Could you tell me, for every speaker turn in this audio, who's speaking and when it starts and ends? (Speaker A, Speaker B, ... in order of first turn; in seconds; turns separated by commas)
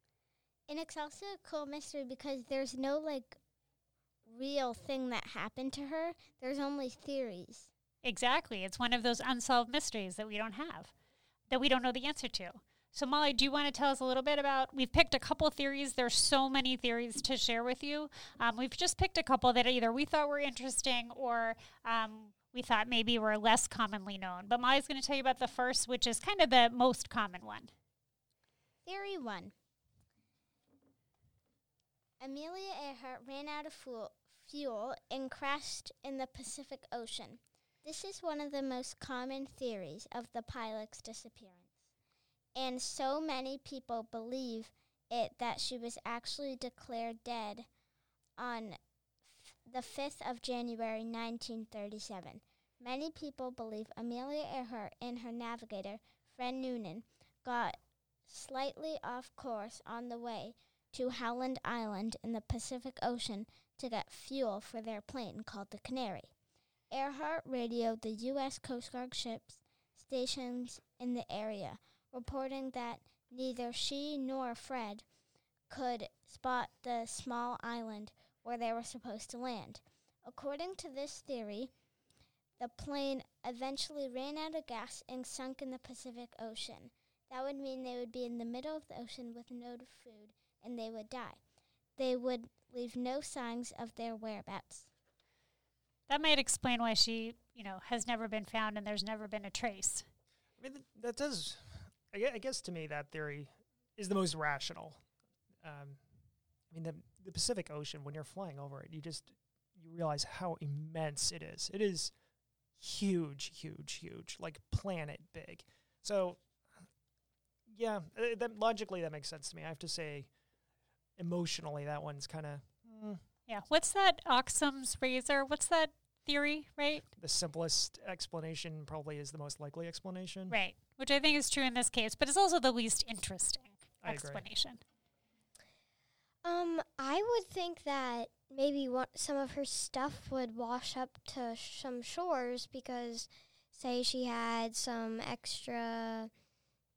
Speaker A: 0.7-3.4, Speaker A: 4.2-7.7, Speaker B: 8.0-10.9, Speaker B: 11.5-27.7, Speaker A: 28.8-29.5, Speaker A: 32.2-41.7, Speaker A: 42.5-47.7, Speaker A: 48.4-48.8, Speaker A: 49.6-66.3, Speaker A: 66.9-75.0, Speaker A: 75.7-81.7, Speaker A: 82.6-91.4, Speaker A: 92.0-94.9, Speaker B: 96.1-100.0, Speaker C: 100.6-105.0, Speaker C: 105.6-106.0, Speaker C: 106.7-112.1, Speaker C: 112.8-116.4, Speaker C: 117.7-120.3, Speaker C: 121.2-123.2, Speaker B: 123.5-127.1, Speaker C: 127.2-130.6, Speaker B: 130.5-134.8, Speaker C: 134.0-134.4, Speaker D: 136.4-146.3